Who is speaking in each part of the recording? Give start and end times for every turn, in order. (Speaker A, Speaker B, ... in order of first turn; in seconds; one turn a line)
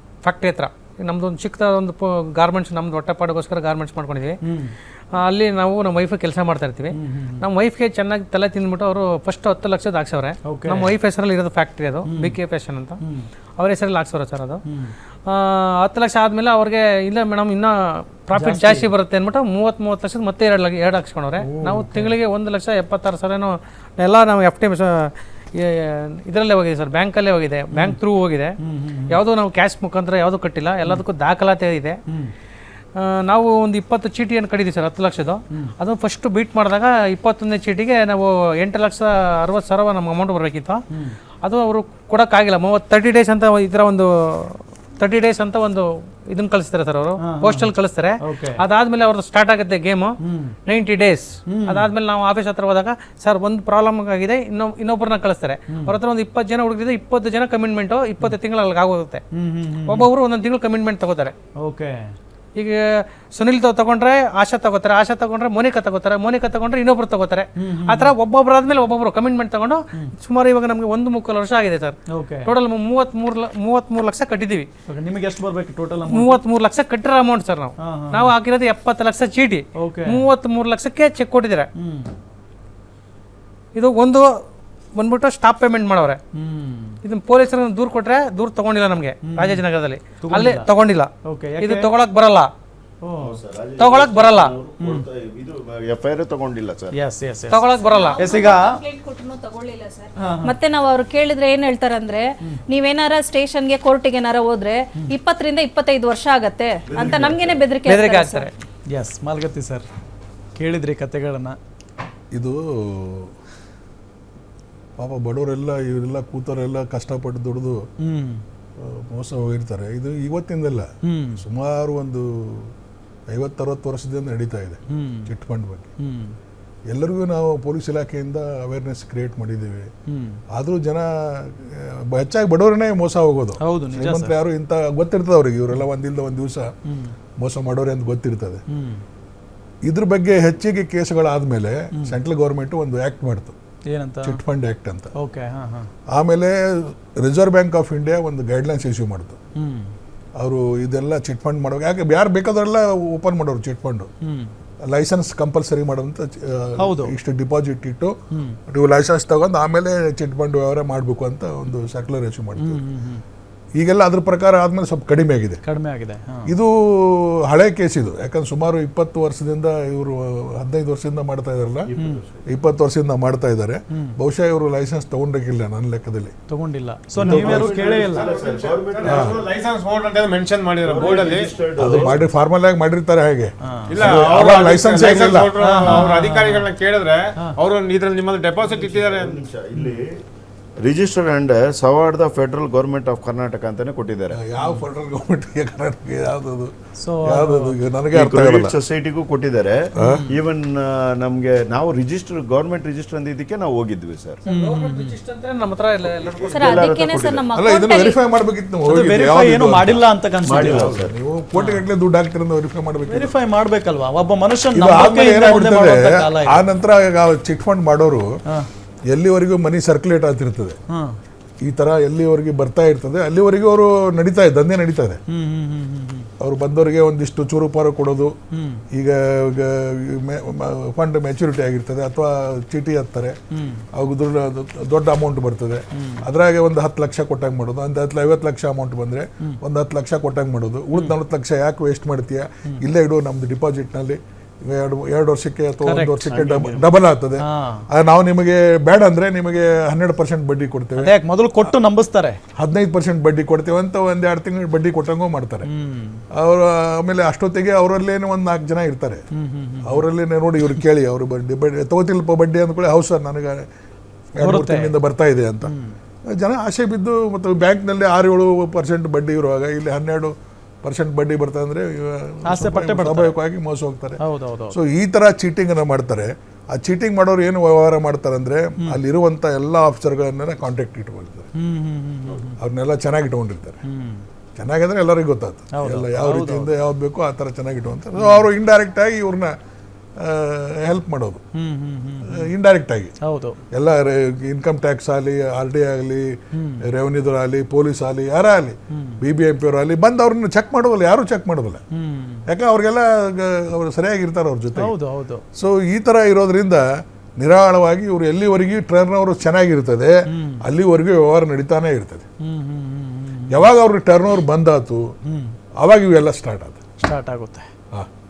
Speaker A: 0.2-4.4
Speaker B: 4.4-4.7
Speaker A: 5.2-13.0
Speaker B: 6.9-7.5
Speaker B: 10.4-10.9
Speaker B: 12.1-12.3
Speaker B: 13.0-13.3
Speaker A: 13.6-14.6
Speaker B: 14.7-14.9
Speaker A: 15.3-28.5
Speaker B: 18.3-18.9
Speaker B: 21.4-22.1
Speaker B: 27.7-28.0
Speaker B: 28.6-29.2
Speaker A: 29.1-32.0
Speaker B: 32.1-32.3
Speaker A: 33.0-40.8
Speaker B: 40.9-41.2
Speaker A: 41.4-50.1
Speaker B: 47.2-47.7
Speaker B: 48.2-48.6
Speaker B: 50.2-50.5
Speaker A: 50.6-59.2
Speaker B: 51.5-51.9
Speaker B: 55.7-56.0
Speaker B: 59.3-60.1
Speaker A: 59.8-61.3
Speaker B: 61.6-62.1
Speaker A: 62.5-74.7
Speaker B: 67.6-68.1
Speaker B: 72.1-72.5
Speaker B: 74.9-76.4
Speaker A: 76.1-81.7
Speaker B: 77.8-78.3
Speaker B: 79.8-80.2
Speaker B: 81.8-82.1
Speaker A: 83.7-84.3
Speaker A: 84.9-86.2
Speaker B: 86.3-87.0
Speaker A: 87.0-92.5
Speaker B: 89.3-89.6
Speaker B: 90.2-90.7
Speaker B: 91.2-91.9
Speaker B: 93.0-93.4
Speaker C: 93.2-96.9
Speaker A: 93.8-94.5
Speaker B: 94.8-95.0
Speaker B: 96.9-98.8
Speaker A: 97.5-98.2
Speaker D: 97.8-108.5
Speaker B: 100.2-100.6
Speaker C: 106.9-107.6
Speaker A: 107.8-108.5
Speaker B: 108.9-109.9
Speaker B: 110.5-111.6
Speaker E: 112.3-113.3
Speaker E: 115.0-117.8
Speaker B: 118.0-118.4
Speaker E: 118.8-122.7
Speaker B: 121.0-121.4
Speaker E: 123.3-125.9
Speaker B: 124.9-125.3
Speaker B: 126.0-126.3
Speaker E: 126.9-129.9
Speaker B: 130.1-130.4
Speaker E: 130.5-136.7
Speaker B: 133.6-134.3
Speaker B: 136.9-137.2
Speaker E: 137.4-138.6
Speaker B: 138.7-139.0
Speaker E: 139.8-143.5
Speaker B: 143.9-144.4
Speaker E: 144.2-145.1
Speaker B: 145.2-145.9
Speaker E: 146.1-149.4
Speaker B: 149.6-149.9
Speaker E: 150.4-154.1
Speaker B: 154.2-154.5
Speaker E: 154.8-158.1
Speaker B: 156.8-157.1
Speaker B: 158.3-158.6
Speaker E: 158.7-162.8
Speaker B: 162.6-163.2
Speaker E: 163.8-165.6
Speaker B: 165.6-166.5
Speaker E: 166.4-171.9
Speaker C: 171.9-172.4
Speaker E: 172.4-176.3
Speaker B: 176.5-178.3
Speaker E: 177.2-177.8
Speaker F: 177.2-181.5
Speaker C: 177.4-179.4
Speaker E: 179.0-179.3
Speaker C: 180.8-182.2
Speaker E: 181.8-185.5
Speaker B: 183.6-184.4
Speaker F: 183.9-189.4
Speaker B: 185.6-186.7
Speaker C: 188.6-190.1
Speaker B: 189.8-190.0
Speaker C: 190.8-194.4
Speaker E: 194.3-196.7
Speaker B: 197.0-197.8
Speaker E: 197.2-198.8
Speaker C: 198.1-199.8
Speaker E: 199.9-200.2
Speaker B: 200.0-200.4
Speaker C: 200.3-204.4
Speaker A: 204.4-206.8
Speaker B: 204.4-205.2
Speaker C: 206.2-207.4
Speaker D: 206.5-208.2
Speaker E: 207.5-213.3
Speaker B: 208.8-211.0
Speaker C: 210.4-211.1
Speaker B: 211.5-211.8
Speaker B: 213.1-216.6
Speaker E: 214.7-218.3
Speaker E: 219.1-220.8
Speaker B: 220.9-221.2
Speaker E: 221.6-225.2
Speaker B: 225.3-226.3
Speaker E: 226.4-228.3
Speaker B: 228.5-228.8
Speaker E: 228.9-233.3
Speaker B: 233.5-233.8
Speaker E: 233.9-251.1
Speaker B: 235.9-236.3
Speaker B: 245.8-246.2
Speaker C: 246.2-246.9
Speaker B: 247.4-247.8
Speaker B: 251.0-252.4
Speaker E: 252.6-255.7
Speaker B: 255.7-256.2
Speaker E: 256.3-259.2
Speaker B: 259.3-260.0
Speaker E: 259.8-263.7
Speaker E: 264.4-265.7
Speaker B: 264.4-264.9
Speaker B: 265.6-265.9
Speaker E: 266.3-281.5
Speaker B: 272.5-273.3
Speaker B: 274.2-274.8
Speaker B: 281.6-282.5
Speaker E: 282.6-283.8
Speaker B: 283.8-284.2
Speaker E: 284.6-289.5
Speaker B: 285.7-286.7
Speaker E: 290.2-291.4
Speaker B: 291.5-292.5
Speaker E: 292.2-293.1
Speaker B: 293.2-293.6
Speaker E: 293.7-301.8
Speaker B: 296.5-296.9
Speaker B: 298.9-299.2
Speaker B: 301.9-302.5
Speaker E: 302.5-304.9
Speaker B: 304.8-305.4
Speaker E: 305.6-312.2
Speaker B: 310.3-310.6
Speaker B: 312.4-313.6
Speaker E: 313.5-315.1
Speaker B: 315.2-315.6
Speaker E: 315.8-316.8
Speaker B: 317.0-317.7